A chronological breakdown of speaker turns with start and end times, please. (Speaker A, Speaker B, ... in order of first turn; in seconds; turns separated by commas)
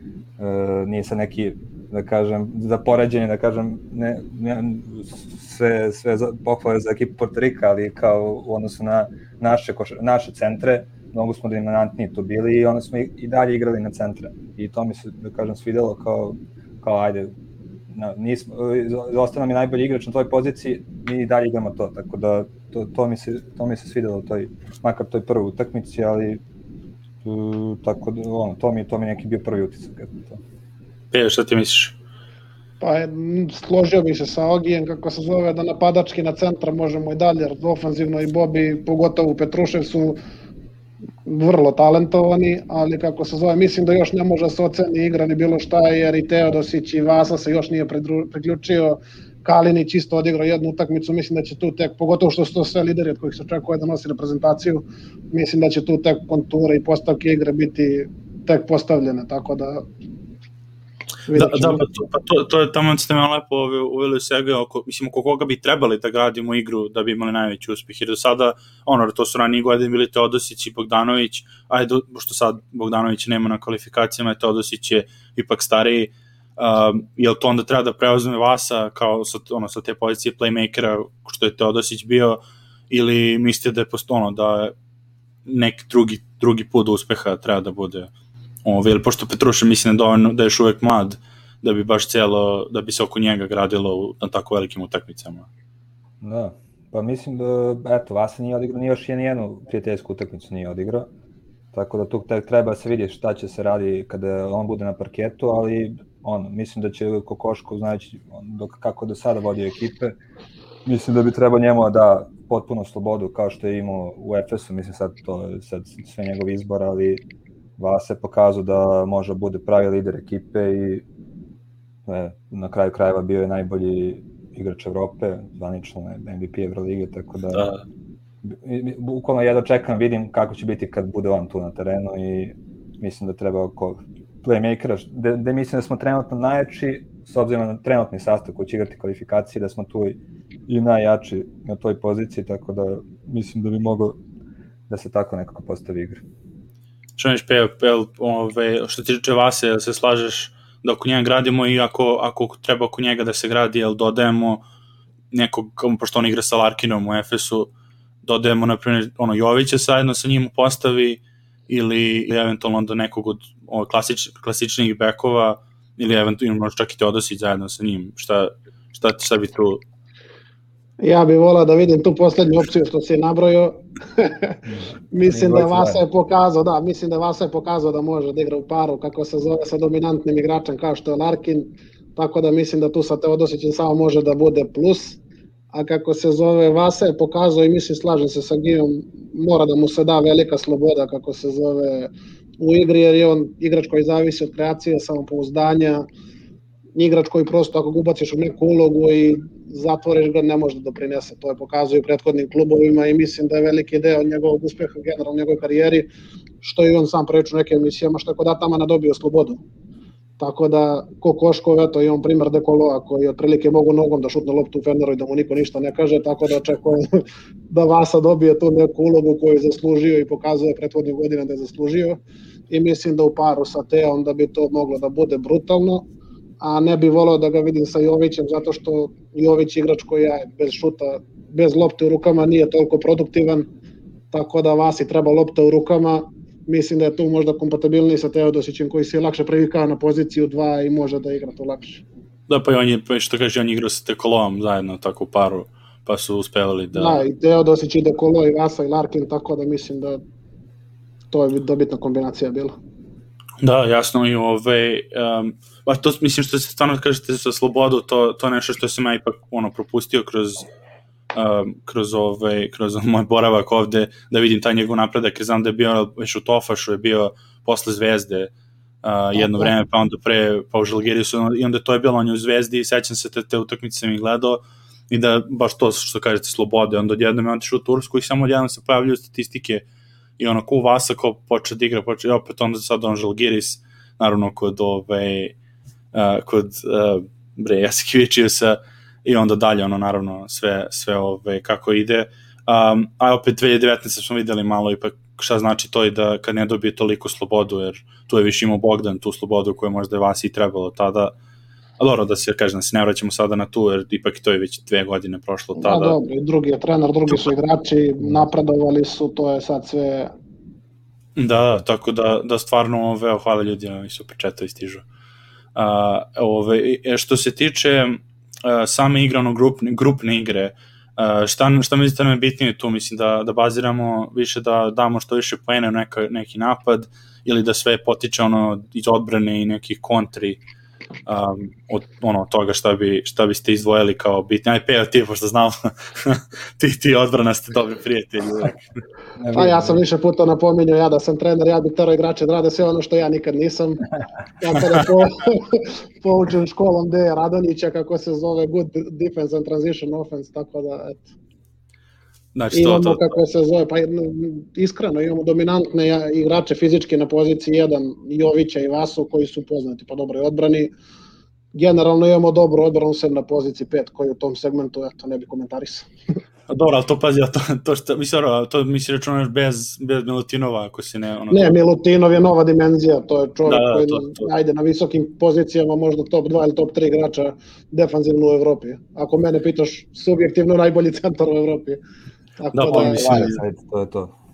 Speaker A: 0.4-17.3, Speaker A: 17.9-26.4, Speaker A: 27.2-30.4, Speaker B: 31.1-31.9, Speaker C: 32.8-40.2, Speaker C: 41.2-59.8, Speaker C: 61.3-61.8, Speaker B: 61.3-84.7, Speaker B: 85.5-88.1, Speaker B: 88.7-95.5, Speaker A: 96.2-101.1, Speaker A: 101.7-110.2, Speaker A: 110.8-117.2, Speaker A: 117.8-121.0, Speaker A: 122.1-127.7, Speaker B: 127.5-127.8, Speaker A: 128.5-144.2, Speaker A: 144.9-146.2, Speaker B: 147.2-154.6, Speaker B: 155.3-157.7, Speaker B: 158.2-169.8, Speaker C: 171.0-174.6, Speaker A: 174.7-176.0, Speaker C: 175.1-185.2, Speaker C: 185.7-196.1, Speaker C: 196.9-206.1, Speaker C: 206.6-209.6, Speaker C: 210.4-217.2, Speaker C: 217.7-222.2, Speaker C: 222.7-226.0, Speaker C: 226.6-233.7, Speaker C: 234.3-242.0, Speaker B: 242.5-247.2, Speaker C: 246.9-250.2, Speaker C: 251.3-252.8, Speaker B: 253.6-260.7, Speaker B: 261.3-268.5, Speaker B: 269.0-279.8, Speaker C: 269.4-269.7, Speaker B: 280.4-285.6, Speaker B: 286.1-301.3, Speaker B: 302.0-306.2, Speaker C: 305.8-310.3, Speaker B: 311.4-315.0, Speaker B: 315.8-330.6, Speaker B: 331.3-338.8, Speaker A: 339.4-340.0, Speaker C: 339.5-351.2, Speaker B: 352.6-353.2, Speaker C: 352.7-360.9, Speaker C: 361.7-366.1, Speaker B: 366.7-371.8, Speaker C: 371.5-382.0, Speaker B: 373.7-374.5, Speaker C: 382.6-383.5, Speaker B: 382.7-383.6, Speaker A: 382.9-384.3